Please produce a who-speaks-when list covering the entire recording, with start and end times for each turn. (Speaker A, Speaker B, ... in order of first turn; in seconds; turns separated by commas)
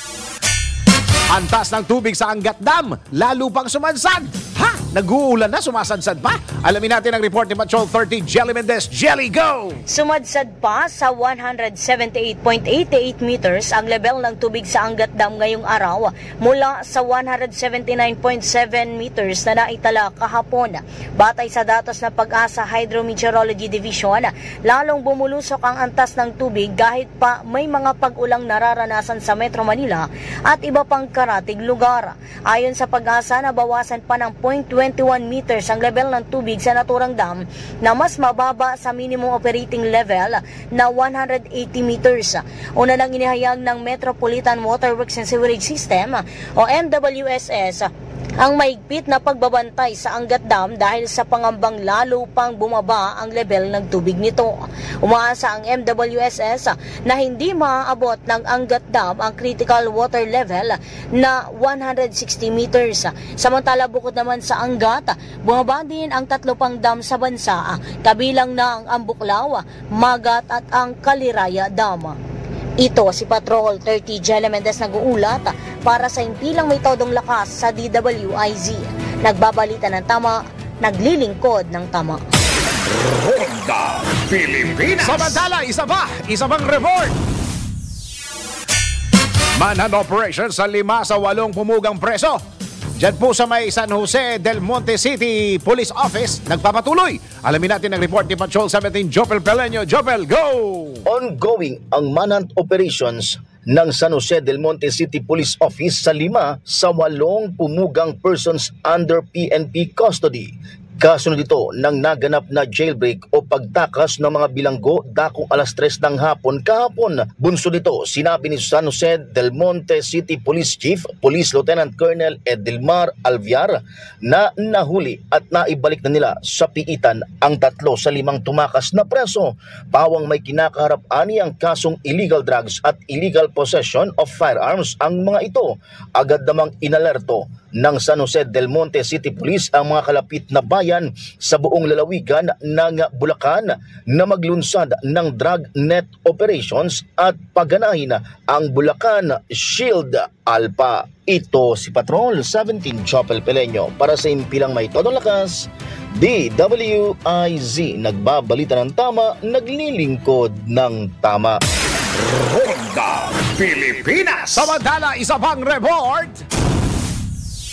Speaker A: 1.3-9.8, Speaker B: 9.9-72.2, Speaker B: 72.8-82.2, Speaker C: 82.6-85.4, Speaker A: 85.0-87.2, Speaker A: 89.6-92.4, Speaker A: 93.0-101.1, Speaker D: 101.1-161.6, Speaker C: 162.2-164.7, Speaker A: 164.5-166.4